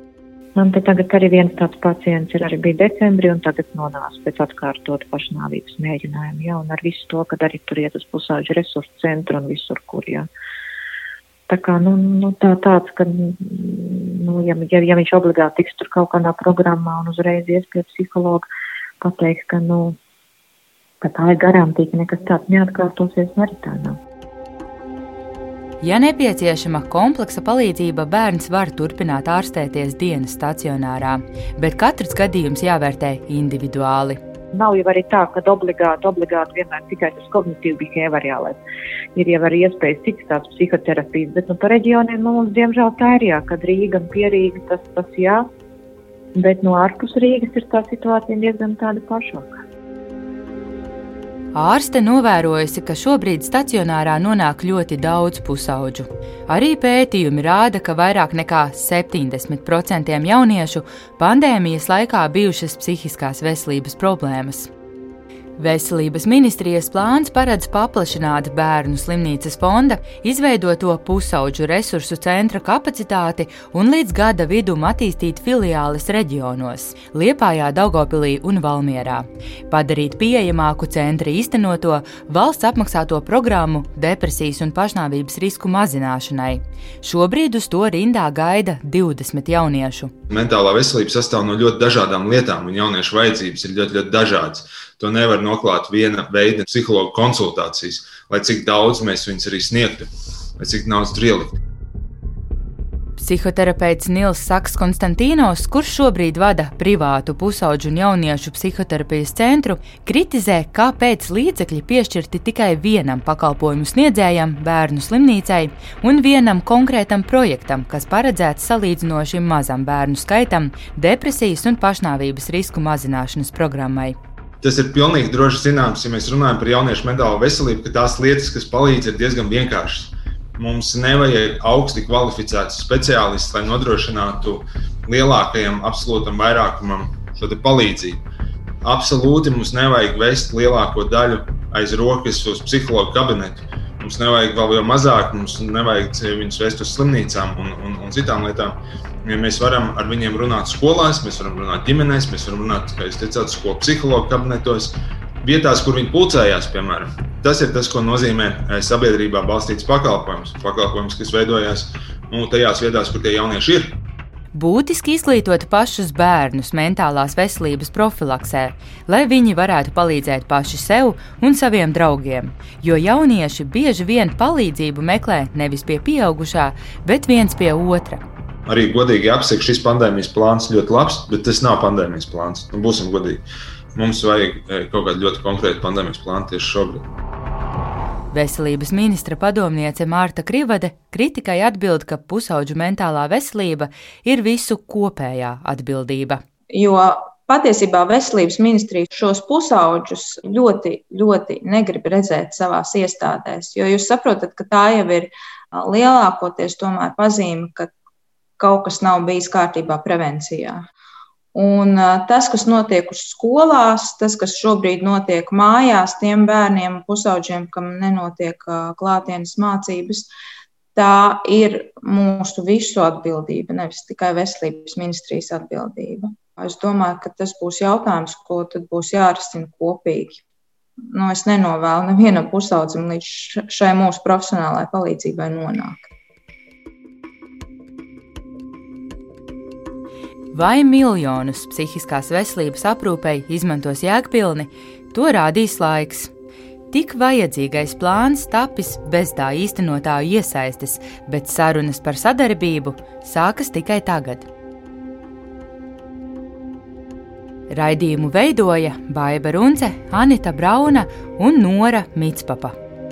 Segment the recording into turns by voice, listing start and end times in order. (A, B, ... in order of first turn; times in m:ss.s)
0:00.6-0:10.3 A
0:11.5-0:18.5 A
0:19.0-0:20.0 A
0:21.0-0:24.0 A
0:25.8-0:34.2 B
0:34.5-0:38.6 A
0:39.2-0:45.5 A
0:46.4-0:49.5 A
0:51.5-1:04.7 B
1:05.6-1:30.1 B
1:30.3-1:41.6 C
1:43.2-2:04.2 B
2:04.6-2:18.2 C
2:18.8-2:44.0 C
2:44.5-2:58.2 B
2:58.7-3:03.4 C
3:04.0-3:07.0 C
3:08.3-3:16.4 B
3:16.7-3:27.9 D
3:28.6-3:30.8 D
3:31.6-3:40.3 D
3:41.0-3:50.4 D
3:51.1-3:56.1 D
4:00.5-4:06.3 B
4:06.9-4:14.5 B
4:17.7-4:22.8 B